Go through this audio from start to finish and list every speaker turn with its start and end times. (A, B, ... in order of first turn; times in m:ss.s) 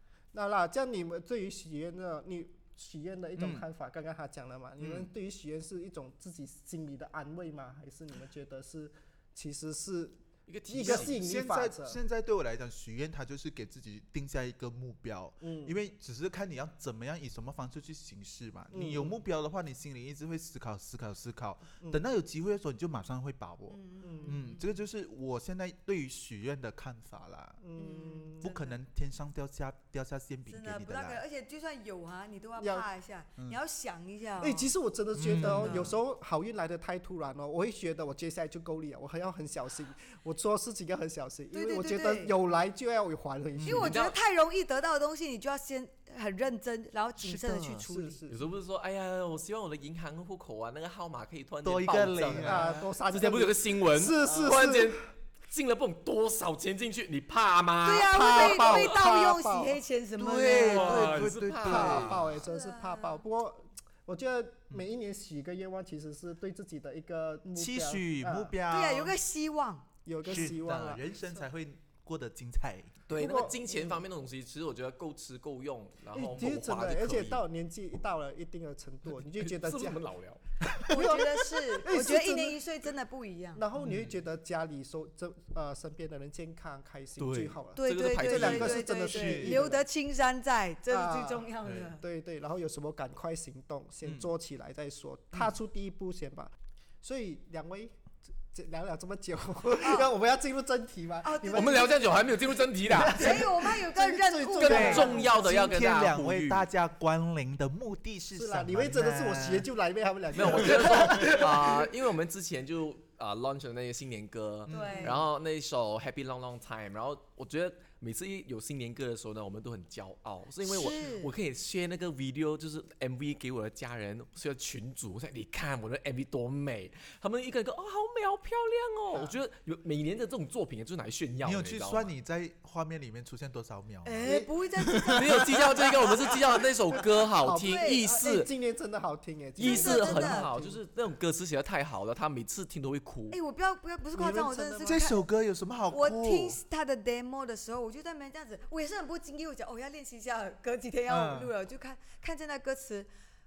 0:00.3-0:12.0 A
0:03.4-0:03.6 B
0:04.8-0:05.1 B
0:10.5-0:11.2 C
0:10.8-0:27.6 B
0:15.4-0:15.8 A
0:18.7-0:19.2 A
0:23.7-0:24.7 D
0:24.0-0:24.4 A
0:27.6-0:28.7 A
0:27.8-0:28.3 D
0:28.4-0:31.2 B
0:30.5-0:34.7 D
0:32.6-0:32.9 A
0:34.4-0:44.0 A
0:35.1-0:35.9 B
0:35.4-0:35.9 D
0:41.5-0:42.3 D
0:43.6-0:43.9 B
0:43.6-0:48.2 D
0:43.8-0:44.2 C
0:47.2-0:47.8 B
0:47.8-0:48.5 A
0:48.3-0:58.9 C
0:51.6-0:52.9 B
0:52.3-0:55.0 A
0:57.8-1:03.2 D
0:58.1-0:59.8 A
1:00.2-1:02.3 B
1:00.4-1:02.3 C
1:01.6-1:08.6 A
1:07.6-1:09.1 B
1:08.7-1:09.9 D
1:10.0-1:11.0 A
1:10.2-1:12.9 B
1:13.1-1:17.4 C
1:13.1-1:14.0 A
1:16.1-1:20.0 A
1:19.2-1:20.4 C
1:20.7-1:20.9 B
1:20.8-1:23.6 D
1:20.9-1:22.6 A
1:23.5-1:29.8 A
1:23.8-1:24.2 B
1:27.2-1:28.9 C
1:27.7-1:32.0 D
1:29.0-1:29.6 B
1:30.9-1:38.0 A
1:31.6-1:31.9 B
1:34.0-1:34.3 B
1:38.5-1:42.0 A
1:39.8-1:40.1 D
1:41.2-1:42.0 D
1:41.5-1:43.4 C
1:42.8-1:45.5 A
1:43.0-1:45.4 D
1:44.6-1:46.7 C
1:44.6-1:49.7 B
1:48.3-1:51.9 A
1:50.3-2:12.1 C
1:54.7-1:55.2 B
1:54.7-1:55.2 D
2:00.6-2:01.3 D
2:11.4-2:15.4 B
2:14.0-2:15.8 D
2:14.2-2:14.5 A
2:15.1-2:18.5 C
2:17.4-2:20.8 A
2:17.5-2:18.2 D
2:19.6-2:20.5 D
2:19.6-2:23.4 C
2:23.3-2:25.2 D
2:24.1-2:25.0 A
2:24.8-2:26.6 B
2:25.9-2:33.1 D
2:31.1-2:31.5 B